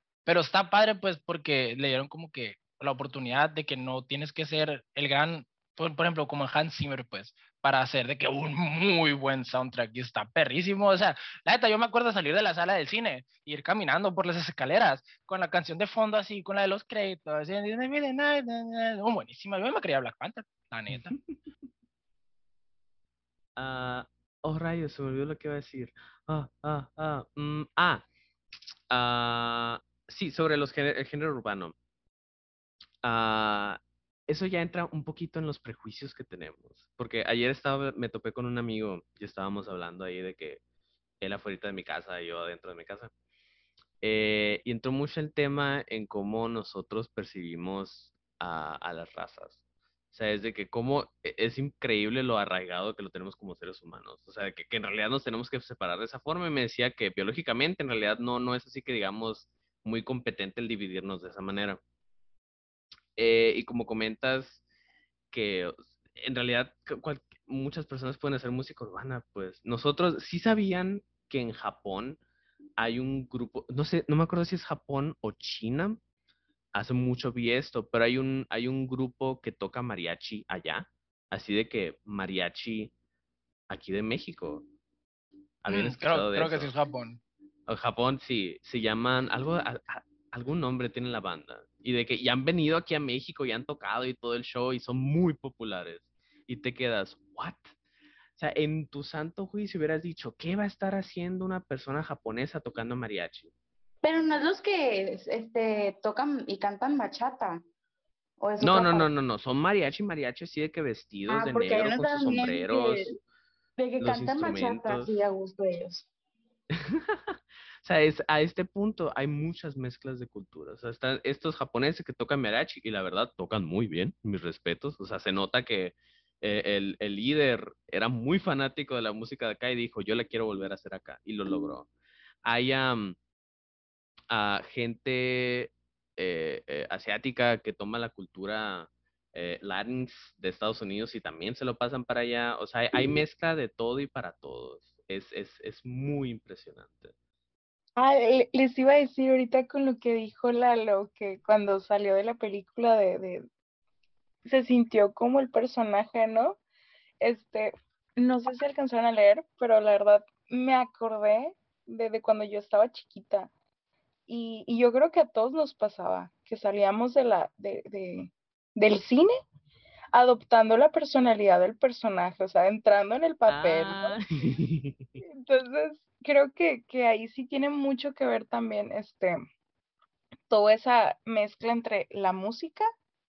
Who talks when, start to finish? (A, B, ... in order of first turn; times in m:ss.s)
0:00.2-0:21.1 A
0:20.9-0:21.4 B
0:23.6-0:28.0 B
0:28.9-0:31.7 B
0:33.0-0:40.6 B
0:41.2-0:43.1 B
0:44.0-0:49.6 B
0:50.1-1:01.8 B
1:03.2-1:04.6 B
1:05.3-1:12.2 B
1:12.8-1:16.0 B
1:16.7-1:22.9 B
1:23.7-1:24.6 B
1:25.6-1:26.7 B
1:25.7-1:27.2 A
1:27.7-1:37.7 B
1:38.4-1:43.5 B
1:44.0-1:47.6 C
1:48.4-1:49.1 C
1:48.6-1:53.1 B
1:51.3-1:53.1 C
1:53.8-1:56.1 C
1:54.0-1:55.2 B
1:56.8-2:11.9 B
2:12.4-2:13.2 B
2:14.3-2:27.1 B
2:28.0-2:33.4 D
2:34.4-2:36.6 D
2:37.2-2:43.5 D
2:44.3-2:49.3 D
2:50.1-2:54.2 D
2:53.5-2:55.2 B
2:55.4-2:59.4 D
3:00.5-3:02.8 D